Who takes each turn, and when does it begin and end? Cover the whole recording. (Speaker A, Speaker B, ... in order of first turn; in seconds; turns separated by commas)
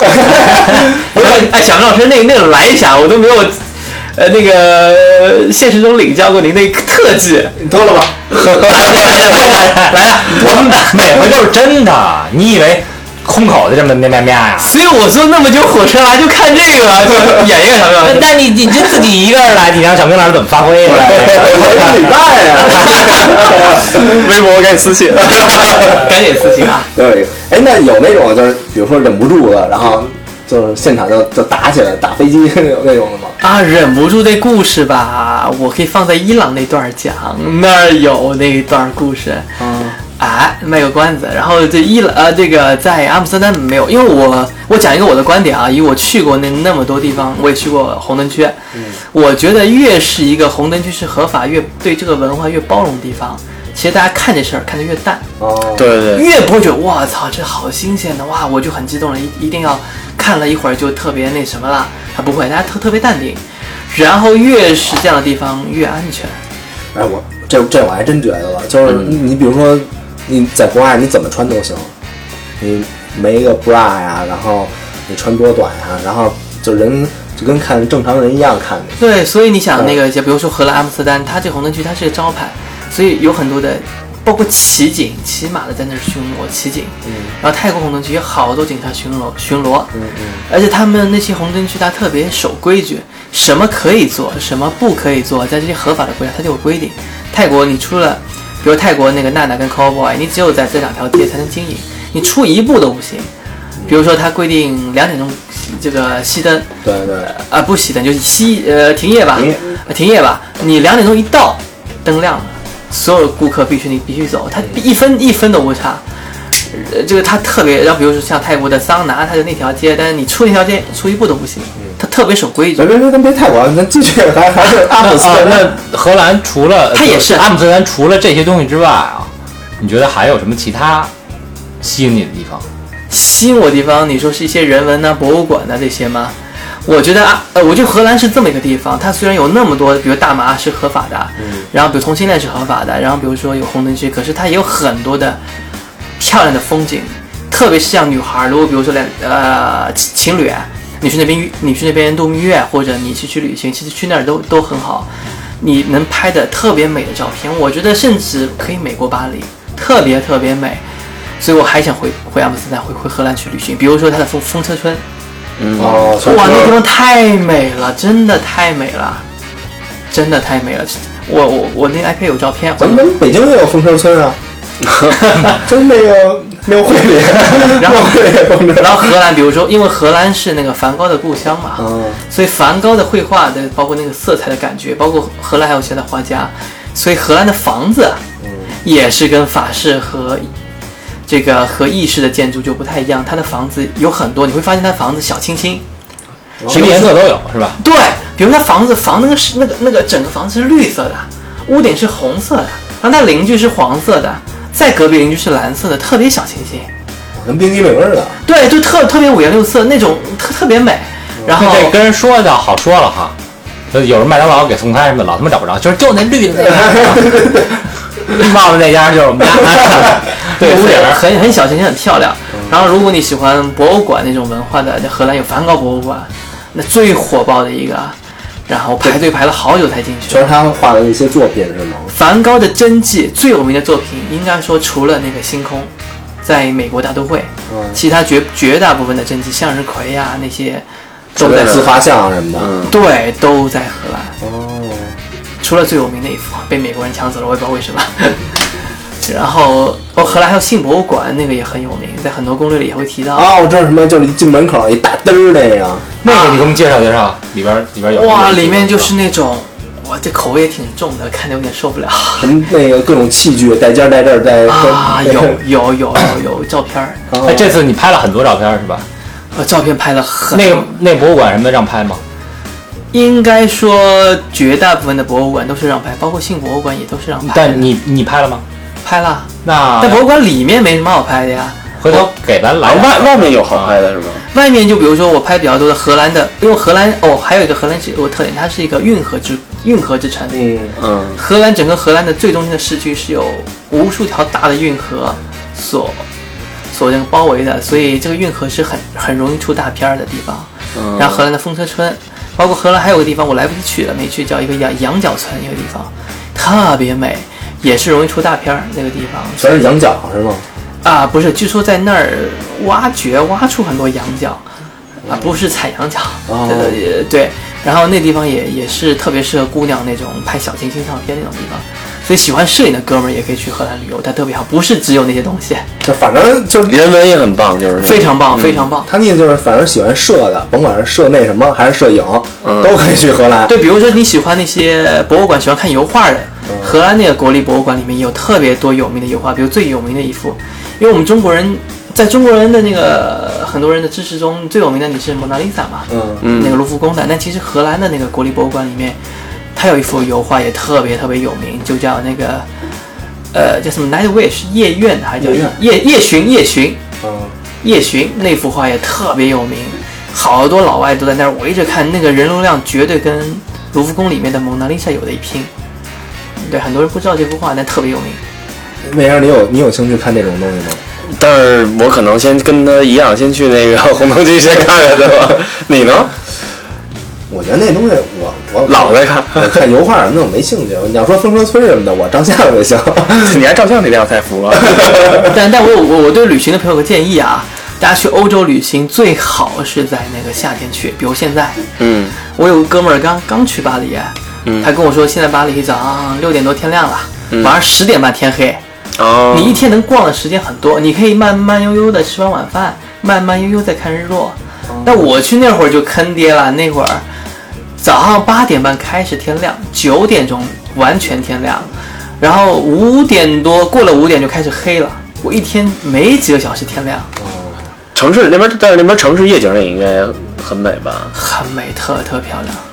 Speaker A: 0.2-7.6, Speaker B: 7.6-8.7, Speaker A: 8.3-11.0, Speaker C: 8.9-14.7, Speaker A: 14.6-18.4, Speaker C: 18.0-23.8, Speaker B: 20.9-24.2, Speaker D: 23.3-26.0, Speaker B: 25.4-26.1, Speaker A: 25.8-26.9, Speaker B: 26.9-33.4, Speaker A: 33.4-48.6, Speaker B: 39.6-40.0, Speaker B: 48.7-49.0, Speaker A: 49.1-55.2, Speaker B: 55.4-55.9, Speaker D: 55.7-56.2, Speaker A: 56.1-66.4, Speaker B: 66.9-71.9, Speaker B: 72.6-79.0, Speaker A: 79.0-89.9, Speaker B: 87.0-87.3, Speaker B: 89.9-90.4, Speaker A: 90.5-103.3, Speaker A: 103.9-106.7, Speaker B: 106.8-107.3, Speaker A: 107.2-116.0, Speaker B: 109.3-109.7, Speaker A: 116.7-122.8, Speaker B: 122.8-125.7, Speaker C: 124.8-131.1, Speaker A: 126.9-127.5, Speaker C: 131.8-132.6, Speaker A: 133.1-145.4, Speaker B: 141.4-141.7, Speaker A: 146.2-160.8, Speaker A: 161.4-165.0, Speaker D: 165.6-166.7, Speaker B: 165.8-166.8, Speaker A: 166.2-169.2, Speaker A: 170.1-173.2, Speaker B: 172.8-174.4, Speaker B: 175.4-179.1, Speaker A: 177.8-188.2, Speaker B: 181.8-182.2, Speaker B: 188.4-188.7, Speaker A: 188.8-190.5, Speaker A: 191.3-195.8, Speaker B: 196.6-197.2, Speaker C: 196.7-197.8, Speaker A: 196.7-197.1, Speaker A: 197.8-206.9, Speaker B: 207.3-208.4, Speaker A: 208.4-211.9, Speaker C: 211.5-213.3, Speaker C: 213.9-217.4, Speaker B: 216.7-217.7, Speaker C: 218.3-221.2, Speaker A: 220.3-228.2, Speaker A: 228.7-230.5, Speaker B: 230.3-232.1, Speaker A: 232.1-235.9, Speaker A: 236.4-242.0, Speaker B: 237.7-238.0, Speaker D: 241.4-241.9, Speaker B: 241.4-242.8, Speaker D: 242.6-242.9, Speaker A: 242.8-244.4, Speaker B: 244.4-245.2, Speaker A: 245.6-248.6, Speaker A: 249.2-253.5, Speaker B: 253.3-256.1, Speaker C: 256.2-259.1, Speaker A: 256.2-256.7, Speaker A: 258.1-262.5, Speaker B: 262.4-265.6, Speaker A: 264.6-267.2, Speaker B: 267.3-267.7, Speaker C: 267.4-269.1, Speaker A: 269.5-270.9, Speaker C: 270.5-272.2, Speaker A: 273.1-277.9, Speaker C: 277.4-278.6, Speaker A: 279.0-281.8, Speaker C: 279.6-280.2, Speaker C: 282.0-284.0, Speaker D: 282.8-284.4, Speaker A: 284.5-290.7, Speaker B: 290.5-291.0, Speaker D: 291.0-291.4, Speaker A: 291.4-296.2, Speaker A: 296.9-309.8, Speaker D: 300.9-301.4, Speaker B: 309.6-310.6, Speaker A: 311.0-314.6, Speaker A: 315.2-325.9, Speaker B: 315.2-315.5, Speaker B: 316.5-317.0, Speaker B: 326.0-327.0, Speaker D: 326.9-328.9, Speaker A: 328.0-329.1, Speaker B: 329.0-333.7, Speaker D: 332.6-333.0, Speaker A: 333.7-349.2, Speaker B: 336.7-336.9, Speaker B: 346.1-346.4, Speaker D: 346.4-346.8, Speaker A: 349.7-352.6, Speaker A: 353.5-357.0, Speaker B: 355.4-355.8, Speaker B: 357.2-357.5, Speaker A: 357.8-365.7, Speaker A: 366.6-368.4, Speaker B: 369.0-371.0, Speaker D: 371.2-376.3, Speaker B: 377.5-383.6, Speaker D: 378.9-379.8, Speaker D: 383.3-385.5, Speaker B: 384.8-385.5, Speaker A: 385.5-391.9, Speaker D: 392.0-392.4, Speaker A: 392.4-398.8, Speaker D: 399.1-399.9, Speaker A: 399.5-407.2, Speaker B: 404.9-405.2, Speaker A: 408.0-417.3, Speaker B: 417.4-417.9, Speaker D: 418.1-421.3, Speaker A: 421.3-422.8